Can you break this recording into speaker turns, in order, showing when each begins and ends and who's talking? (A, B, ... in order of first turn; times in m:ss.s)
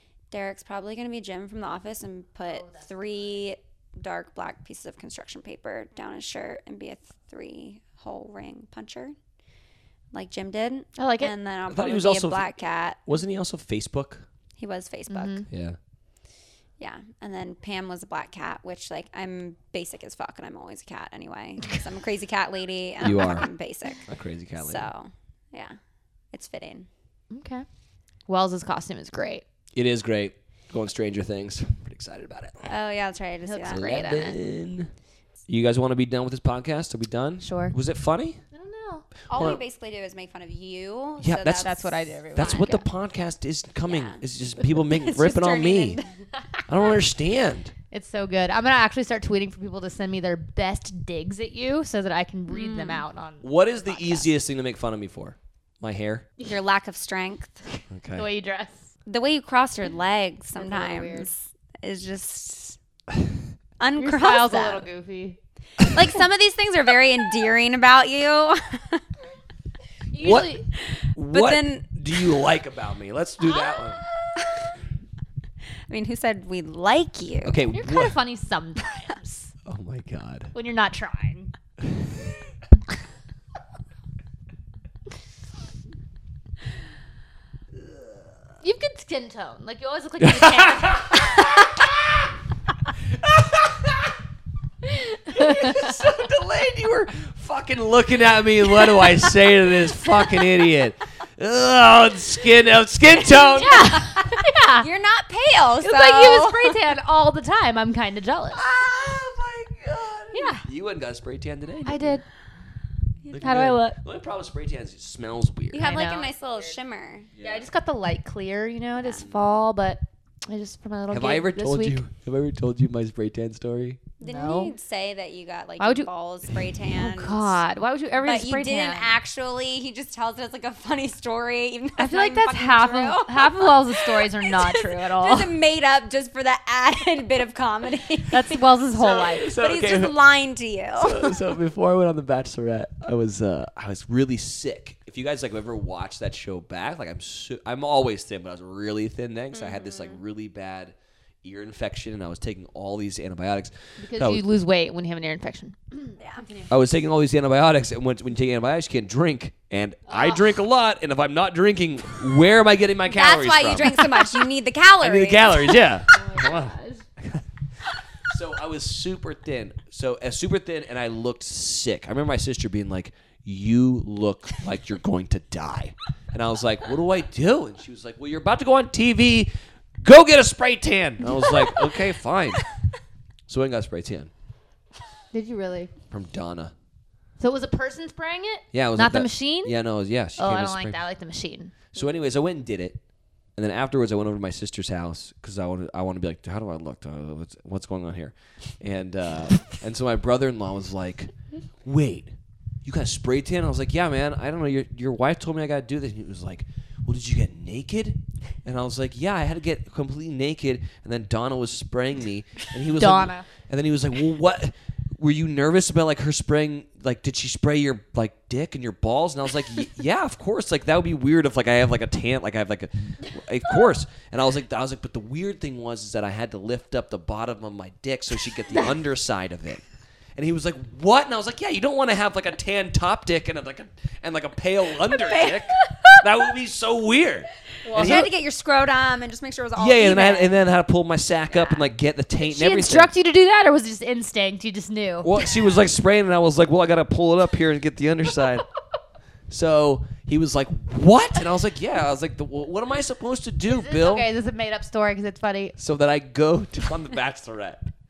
0:00.3-0:09.2 A
0:10.1-0:13.0 A
0:11.0-0:11.3 B
0:11.7-0:12.5 C
0:13.0-0:14.3 C
0:14.6-0:15.4 A
0:15.1-0:15.5 B
0:15.5-0:15.8 C
0:16.8-0:24.0 A
0:23.0-0:23.5 C
0:24.1-0:24.9 C
0:24.6-0:25.8 A
0:26.3-0:26.9 A
0:27.3-0:27.6 B
0:28.3-0:29.4 B
0:29.8-0:32.7 C
0:32.7-0:34.3 A
0:33.5-0:34.3 B
0:33.7-0:34.9 C
0:35.5-0:38.4 C
0:37.4-0:37.8 B
0:38.5-0:39.3 B
0:39.3-0:42.8 A
0:39.3-0:39.6 C
0:41.2-0:41.7 C
0:41.5-0:42.7 B
0:42.3-0:46.0 C
0:43.9-0:46.1 A
0:46.7-0:47.7 C
0:47.9-0:54.3 B
0:52.5-0:53.1 A
0:53.4-0:56.3 C
0:56.4-0:57.6 A
0:57.9-0:58.3 C
0:58.2-0:58.9 B
0:59.1-1:02.8 A
1:00.6-1:01.3 B
1:03.8-1:04.9 A
1:04.0-1:05.4 B
1:05.9-1:09.0 A
1:10.1-1:10.7 B
1:10.2-1:10.6 C
1:11.2-1:14.0 C
1:11.3-1:11.9 A
1:13.5-1:14.4 B
1:14.4-1:14.7 A
1:15.9-1:17.7 A
1:17.4-1:18.2 C
1:17.7-1:19.6 B
1:19.7-1:20.5 C
1:20.5-1:21.5 B
1:28.6-1:31.6 B
1:30.2-1:31.7 C
1:33.2-1:34.0 C
1:34.9-1:35.9 B
1:35.3-1:44.0 C
1:43.2-1:46.8 A
1:43.4-1:44.9 B
1:45.8-1:48.6 B
1:48.5-1:52.2 C
1:50.3-1:50.6 B
1:51.8-1:52.2 B
1:53.3-1:55.8 C
1:53.3-1:54.0 B
1:55.7-1:57.3 A
1:55.8-1:56.5 B
1:57.4-1:57.6 C
1:57.4-2:02.0 B
1:59.0-1:59.2 A
2:01.1-2:04.0 C
2:04.2-2:07.6 A
2:04.2-2:04.7 B
2:05.8-2:06.1 B
2:06.9-2:09.2 B
2:08.2-2:18.6 A
2:12.0-2:15.5 B
2:18.3-2:19.5 B
2:19.0-2:20.2 C
2:19.5-2:21.4 A
2:21.0-2:34.4 C
2:29.5-2:30.2 A
2:34.0-2:36.7 B
2:36.2-2:36.5 A
2:36.7-2:44.1 C
2:40.1-2:40.4 B
2:43.1-2:45.8 A
2:45.0-2:46.7 C
2:46.1-2:47.0 B
2:48.3-2:59.5 C
3:00.0-3:02.6 C
3:03.5-3:04.3 C
3:05.3-3:05.9 B
3:06.1-3:06.7 C
3:07.4-3:09.8 B
3:08.7-3:11.0 C
3:10.4-3:11.8 B
3:11.9-3:13.0 C
3:13.6-3:21.3 C
3:21.8-3:49.8 C
3:32.9-3:33.5 B
3:50.4-3:58.3 C
3:55.1-3:56.1 A
3:57.9-3:58.3 B
3:57.9-4:00.6 A
3:59.8-4:03.1 C
4:01.5-4:01.9 A
4:02.4-4:05.3 B
4:05.2-4:08.6 C
4:09.5-4:14.3 C
4:13.7-4:15.8 B
4:15.8-4:17.9 C